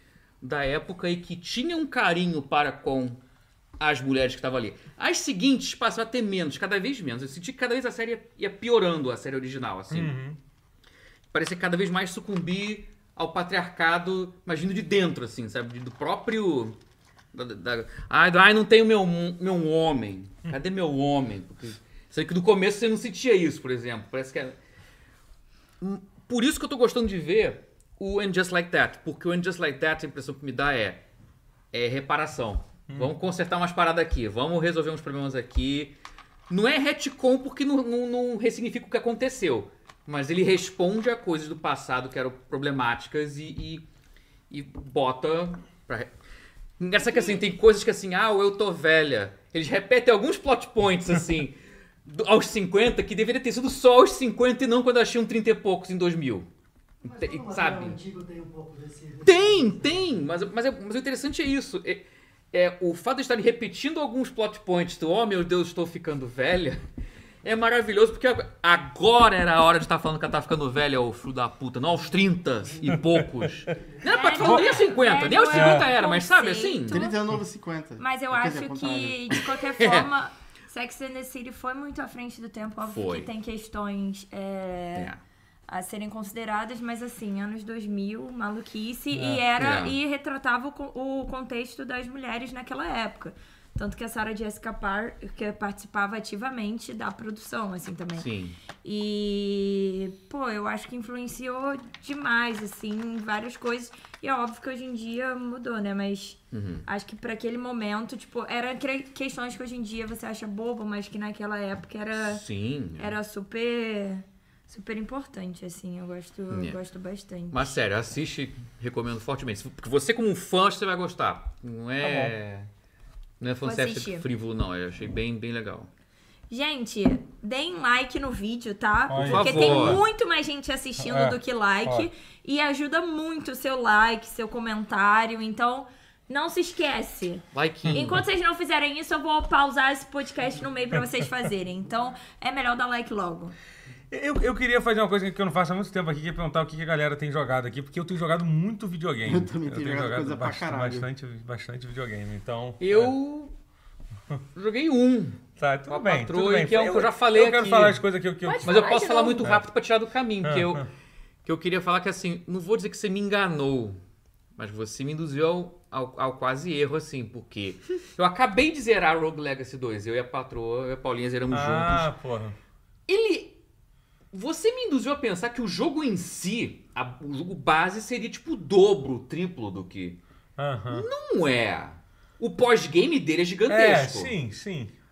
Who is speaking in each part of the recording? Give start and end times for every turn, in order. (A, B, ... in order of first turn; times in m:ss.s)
0:00.4-0:03.2 A
0:03.8-0:10.1 A
0:09.9-0:10.4 B
0:11.3-0:16.8 A
0:17.3-0:24.6 A
0:25.8-0:31.0 A
0:31.7-0:36.0 A
0:36.5-0:43.8 A
0:44.5-0:46.1 A
0:46.8-0:56.5 A
0:57.0-1:00.1 C
0:57.2-0:58.0 A
0:59.2-1:06.8 A
1:07.4-1:17.1 A
1:12.7-1:13.0 C
1:12.9-1:13.5 B
1:14.0-1:17.2 D
1:14.4-1:14.8 B
1:15.5-1:15.9 B
1:16.9-1:19.4 E
1:18.0-1:25.1 D
1:19.6-1:20.1 A
1:22.8-1:23.3 A
1:25.7-1:52.4 D
1:29.1-1:29.4 B
1:29.6-1:30.0 A
1:38.1-1:38.6 A
1:46.5-1:46.8 A
1:52.2-1:53.2 A
1:53.0-1:57.7 D
1:56.5-1:56.8 A
1:57.5-2:02.7 A
2:02.0-2:02.3 B
2:03.4-2:05.9 A
2:03.6-2:04.2 D
2:06.5-2:23.5 D
2:09.1-2:10.0 B
2:09.2-2:10.0 A
2:11.0-2:12.1 B
2:17.5-2:18.2 A
2:17.9-2:18.2 B
2:24.1-2:33.1 B
2:29.2-2:31.1 E
2:32.8-2:33.5 A
2:34.5-2:38.0 A
2:35.6-2:39.6 B
2:38.4-2:39.5 D
2:38.6-2:40.9 A
2:40.4-2:40.8 B
2:41.4-2:44.0 A
2:44.6-2:52.1 A
2:51.5-2:52.6 B
2:53.1-2:53.6 A
2:54.3-3:00.2 A
3:00.6-3:01.1 B
3:00.9-3:04.3 A
3:03.7-3:04.9 B